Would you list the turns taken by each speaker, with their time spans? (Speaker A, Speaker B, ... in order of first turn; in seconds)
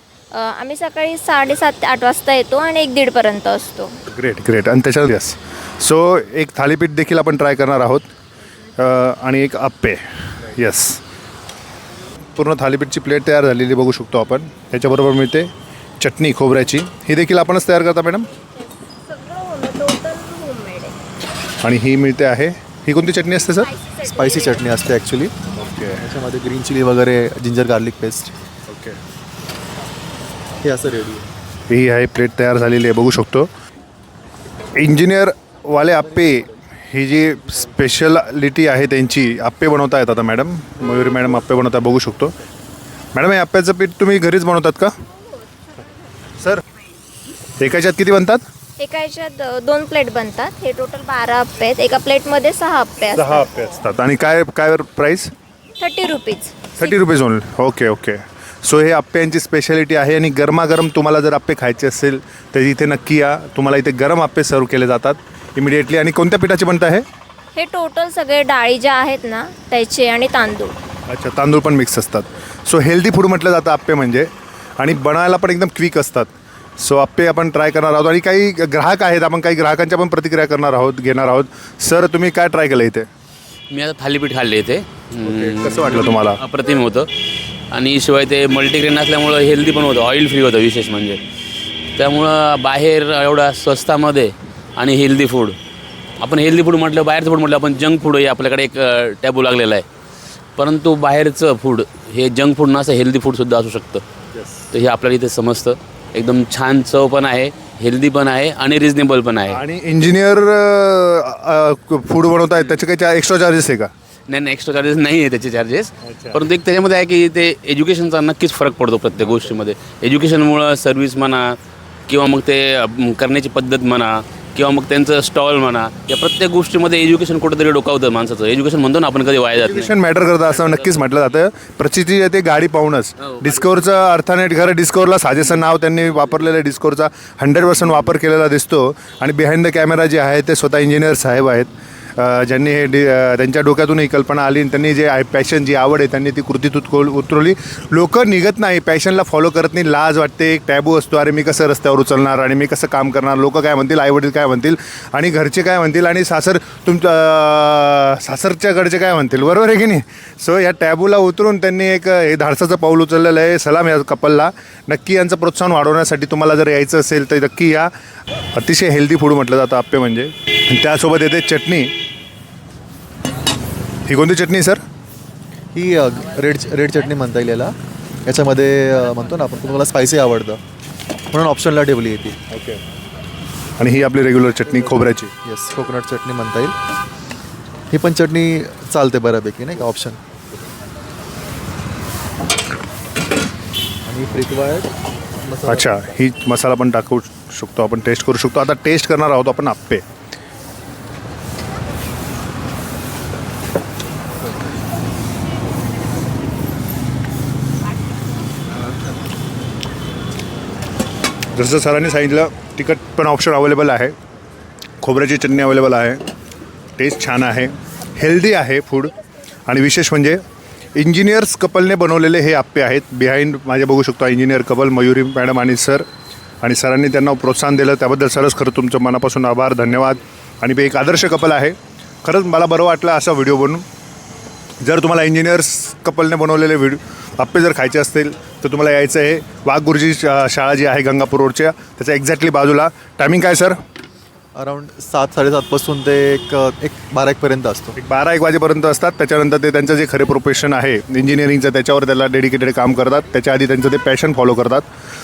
Speaker A: 0.3-3.9, 18.6-21.0, 23.6-24.7, 48.8-53.5, 55.8-56.9, 67.5-70.7
Speaker B: 4.1-8.1, 8.8-11.0, 12.3-18.3, 21.6-23.7, 25.5-26.1, 28.7-29.0, 31.7-33.5, 34.8-42.3, 43.1-44.9, 47.6-48.4, 53.1-55.3, 56.8-67.0, 71.1-83.1, 85.2-86.4, 104.3-104.7, 109.5-113.9, 116.0-116.4, 129.6-167.9, 168.5-171.9, 174.1-174.8, 182.5-182.8, 183.8-185.3, 195.7-200.0, 211.5-214.1, 215.0-216.2, 217.0-219.1, 219.7-220.4, 220.9-226.0, 226.6-233.8, 234.8-243.8, 247.9-254.9
Speaker C: 24.0-25.3, 25.8-28.3, 30.6-31.3, 175.7-177.7, 178.2-180.6, 181.3-182.4, 184.9-186.7, 187.9-190.2, 194.1-194.9, 195.4-196.0, 244.5-247.9
Speaker D: 83.7-87.1, 87.7-91.2, 92.0-95.5, 96.2-99.8, 100.6-104.0, 104.7-109.6, 114.3-121.6, 122.1-131.0